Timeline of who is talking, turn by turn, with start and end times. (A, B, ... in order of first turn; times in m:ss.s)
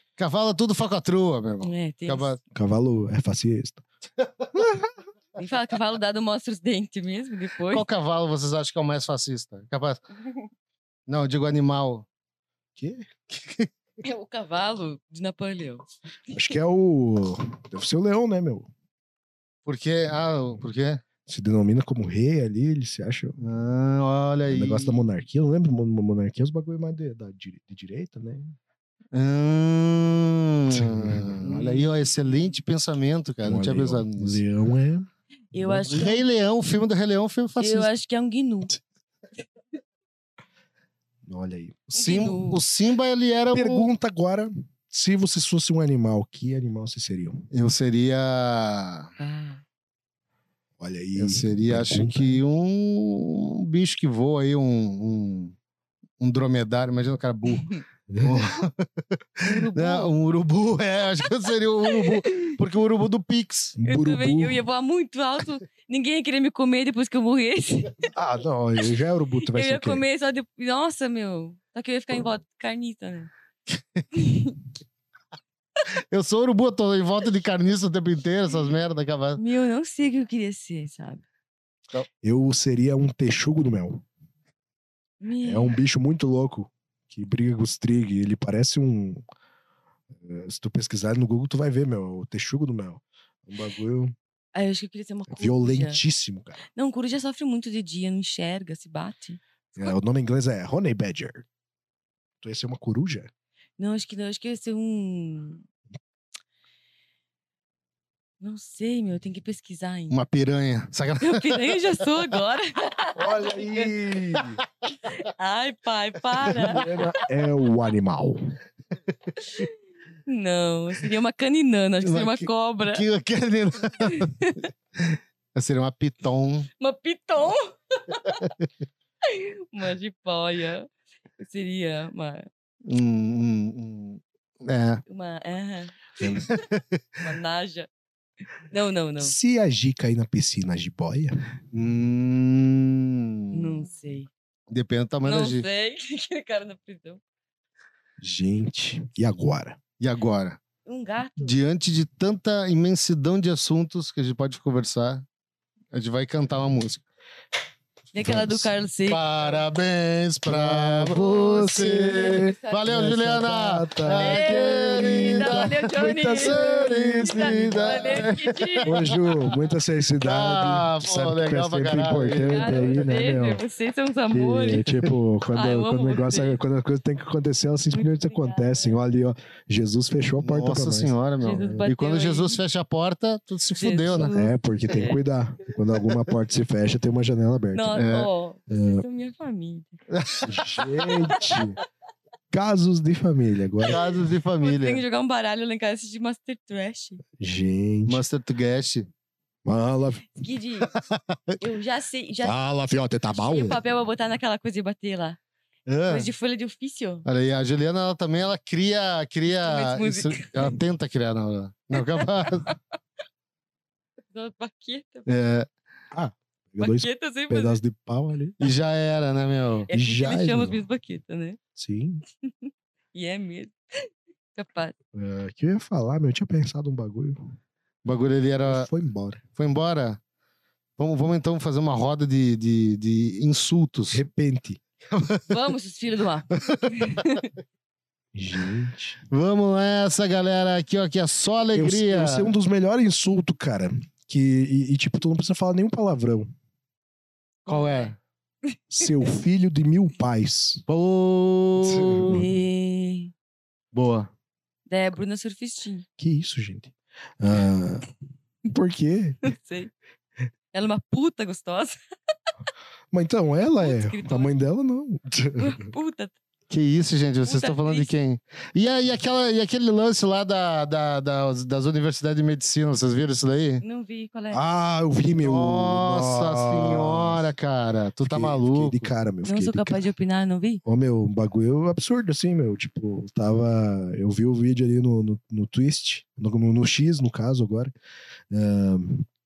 0:00.2-0:02.4 A
0:01.6-0:02.4 B
0:02.5-0:03.8 C
0:04.6-0:04.9 C
0:05.4-0:07.8 B
0:07.7-0:10.0 A
0:11.1-0:12.1 A
0:12.8-0:13.1 C
0:13.3-0:13.7 A
0:14.0-0:15.9 B
0:16.3-0:18.7 C
0:19.7-0:21.0 A
0:21.3-0:23.4 C
0:23.4-0:25.0 A
0:24.5-0:28.6 C
0:29.1-0:34.4 A
0:30.7-0:31.8 C
0:33.4-0:35.1 C
0:35.5-0:36.2 B
0:35.6-0:35.9 C
0:35.9-0:37.9 A
0:37.6-0:38.7 B
0:41.3-0:41.9 C
0:41.9-0:42.6 B
0:41.9-0:43.9 A
0:43.5-0:47.5 C
0:47.5-0:49.1 A
0:49.2-0:49.6 B
0:50.8-0:52.4 C
0:51.2-0:55.6 A
0:56.2-0:57.7 A
0:58.1-0:58.6 C
0:58.2-0:58.9 A
0:59.4-1:03.8 A
0:59.4-1:00.1 B
1:02.0-1:02.5 B
1:03.8-1:04.6 C
1:03.9-1:08.0 B
1:08.1-1:10.0 C
1:09.5-1:13.3 B
1:13.7-1:14.0 A
1:14.1-1:14.6 B
1:16.1-1:19.4 A
1:19.4-1:21.2 B
1:22.2-1:24.0 C
1:25.2-1:25.8 B
1:25.4-1:29.2 C
1:30.2-1:34.2 C
1:34.5-1:36.0 B
1:35.3-1:36.6 C
1:36.7-1:39.9 B
1:39.8-1:41.5 C
1:42.4-1:43.3 C
1:43.8-1:45.6 B
1:48.4-1:50.2 B
1:50.1-1:51.7 A
1:51.2-1:53.9 B
1:53.2-1:54.6 C
1:55.1-1:56.9 B
1:56.5-1:58.6 C
2:00.3-2:03.0 B
2:02.0-2:04.3 A
2:04.1-2:04.7 B
2:05.0-2:06.7 A
2:06.8-2:08.4 B
2:09.2-2:12.5 B
2:12.8-2:15.0 A
2:15.1-2:16.6 B
2:16.4-2:17.0 A
2:17.2-2:17.9 B
2:18.6-2:19.4 B
2:19.2-2:21.4 C
2:21.7-2:23.8 A
2:23.5-2:24.3 B
2:24.7-2:25.6 A
2:25.2-2:27.2 B
2:28.2-2:29.8 C
2:30.0-2:30.6 A
2:30.8-2:31.6 B
2:31.4-2:35.2 A
2:35.9-2:37.0 A
2:38.1-2:39.2 B
2:38.2-2:38.7 C
2:39.1-2:49.0 A
2:40.5-2:48.3 C
2:41.7-2:42.9 B
2:44.2-2:49.2 B
2:48.8-2:53.6 C
2:50.2-2:53.1 A
2:52.5-2:54.9 B
2:54.3-3:01.1 C
2:55.5-2:56.6 B
2:57.9-2:59.0 B
3:00.4-3:04.3 A
3:01.4-3:02.6 B
3:03.7-3:05.2 B
3:04.2-3:08.0 C
3:07.7-3:10.0 B
3:08.0-3:08.3 A
3:08.7-3:09.0 C
3:10.1-3:10.6 A
3:10.4-3:11.8 C
3:11.1-3:11.7 B
3:12.5-3:14.0 C
3:13.9-3:15.0 A
3:14.6-3:17.2 B
3:17.4-3:18.2 C
3:18.1-3:19.1 A
3:19.6-3:20.2 C
3:20.3-3:20.9 B
3:20.9-3:21.6 A
3:21.6-3:22.6 B
3:22.4-3:23.8 C
3:23.3-3:25.4 B
3:25.9-3:26.3 A
3:26.1-3:27.2 B
3:27.2-3:32.7 A
3:29.5-3:30.8 B
3:32.0-3:32.8 B
3:34.3-3:35.3 B
3:35.3-3:35.7 A
3:36.1-3:38.6 C
3:36.8-3:37.8 B
3:38.6-3:39.9 A
3:39.9-3:41.6 B
3:39.9-3:40.8 C
3:41.8-3:42.2 C
3:42.4-3:44.9 B
3:45.1-3:47.5 C
3:48.0-3:48.9 A
3:48.7-3:49.4 C
3:49.6-3:50.2 A
3:51.0-3:54.2 A
3:54.1-3:54.8 C
3:55.1-3:55.4 A
3:55.5-3:57.5 B
3:56.5-3:57.2 A
3:58.3-3:59.2 C
3:59.3-4:02.5 A
4:01.7-4:06.5 C
4:07.7-4:08.2 A
4:07.7-4:08.1 B
4:08.9-4:10.8 C
4:10.9-4:12.4 A
4:11.8-4:12.5 C
4:12.3-4:13.3 B
4:13.9-4:14.3 A
4:14.9-4:16.0 B
4:16.2-4:18.1 C
4:18.6-4:19.5 C
4:19.4-4:19.9 B
4:20.7-4:22.0 B
4:23.1-4:25.9 C
4:23.8-4:24.5 B
4:25.6-4:26.4 B
4:26.7-4:33.8 A
4:27.4-4:28.1 B
4:33.8-4:34.6 B
4:34.5-4:37.5 C
4:35.4-4:39.1 A
4:38.2-4:40.0 C
4:39.4-4:40.8 B
4:40.8-4:47.9 C
4:48.5-4:49.3 C